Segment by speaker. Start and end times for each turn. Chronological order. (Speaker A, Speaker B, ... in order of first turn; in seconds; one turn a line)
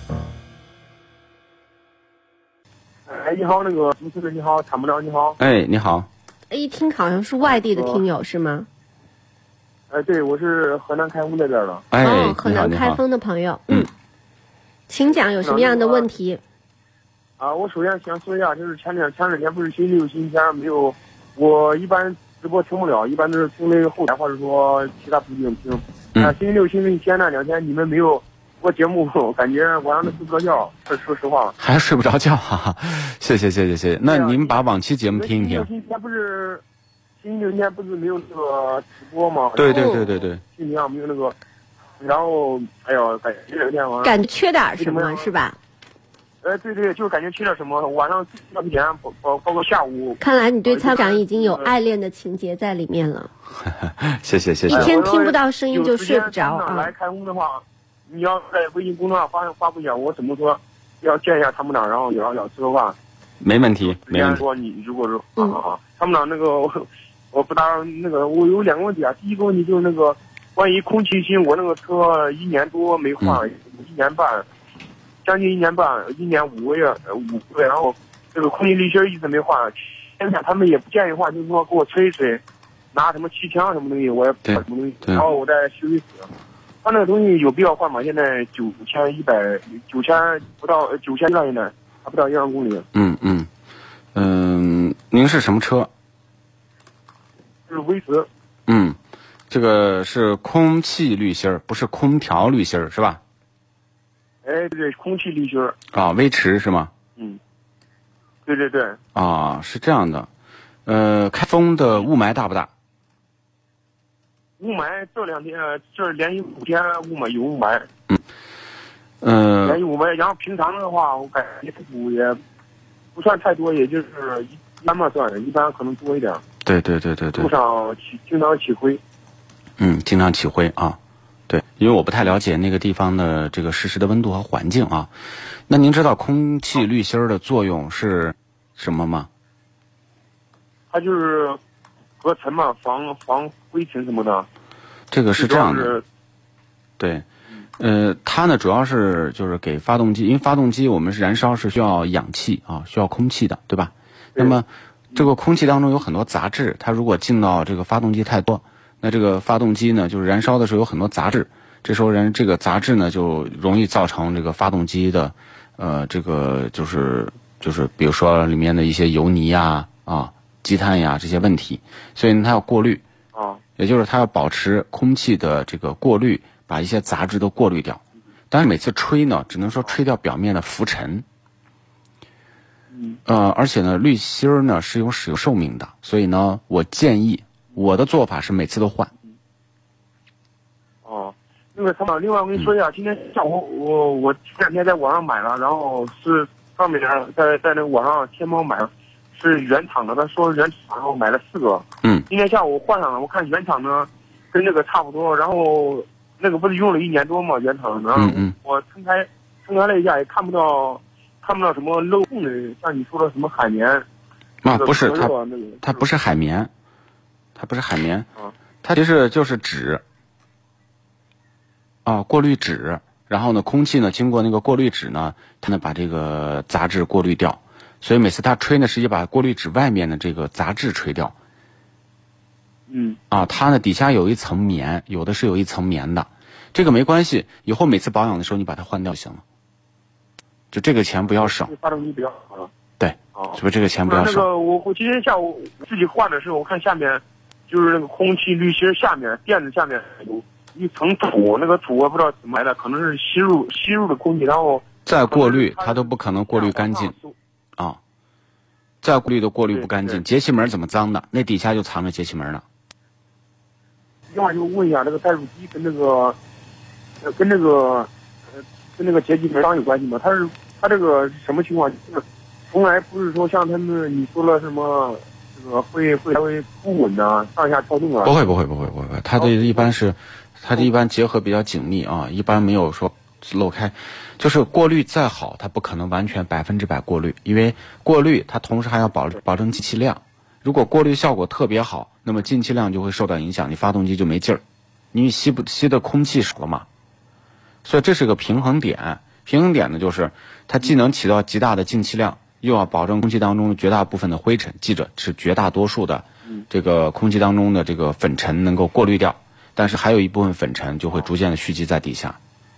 Speaker A: 3.1-5.4
Speaker B: 5.4-6.1
Speaker C: 6.5-8.7
Speaker A: 7.4-8.0
Speaker A: 9.9-11.8
Speaker B: 11.9-13.0
Speaker C: 12.0-13.9
Speaker C: 14.9-16.4
Speaker A: 15.1-16.1
Speaker A: 17.4-31.6
Speaker B: 31.6-35.7
Speaker A: 34.0-36.6
Speaker A: 37.2-41.4
Speaker B: 39.6-40.4
Speaker C: 39.7-40.0
Speaker A: 42.0-44.2
Speaker C: 44.0-45.6
Speaker A: 44.8-45.3
Speaker A: 46.4-51.7
Speaker C: 50.2-53.3
Speaker B: 53.7-54.9
Speaker C: 54.7-56.9
Speaker A: 54.7-63.0
Speaker B: 63.4-64.4
Speaker A: 63.8-74.5
Speaker A: 75.2-86.3
Speaker B: 84.5-85.3
Speaker A: 86.8-92.9
Speaker B: 92.9-93.5
Speaker B: 94.2-95.9
Speaker A: 97.7-98.3
Speaker B: 98.7-99.0
Speaker B: 99.5-103.2
Speaker A: 104.4-105.8
Speaker B: 105.9-106.9
Speaker A: 108.5-109.0
Speaker B: 109.2-110.3
Speaker B: 110.9-112.7
Speaker A: 114.6-117.9
Speaker B: 119.2-119.8
Speaker A: 119.6-122.4
Speaker A: 123.2-126.4
Speaker B: 126.6-127.5
Speaker A: 127.3-129.0
Speaker B: 129.8-131.0
Speaker B: 131.5-135.1
Speaker B: 135.7-139.3
Speaker A: 140.9-141.6
Speaker A: 142.2-144.5
Speaker B: 145.1-146.0
Speaker A: 145.3-146.0
Speaker B: 147.0-147.3
Speaker B: 147.8-173.0
Speaker A: 173.3-173.6
Speaker B: 173.8-181.2
Speaker A: 182.9-183.2
Speaker B: 183.3-189.1
Speaker A: 191.1-214.1
Speaker B: 208.2-208.5
Speaker B: 214.6-216.7
Speaker A: 214.7-216.0
Speaker B: 217.6-218.3
Speaker B: 218.8-220.0
Speaker B: 222.1-231.3
Speaker A: 232.9-233.2
Speaker B: 233.3-239.4
Speaker B: 240.7-241.7
Speaker A: 241.3-242.7
Speaker B: 243.0-244.5
Speaker A: 243.3-257.4
Speaker B: 255.1-257.1
Speaker B: 259.0-262.6
Speaker A: 259.7-260.2
Speaker A: 264.3-266.4
Speaker A: 267.2-278.4
Speaker B: 278.2-294.6
Speaker A: 279.4-279.9
Speaker B: 295.1-296.9
Speaker B: 297.9-312.4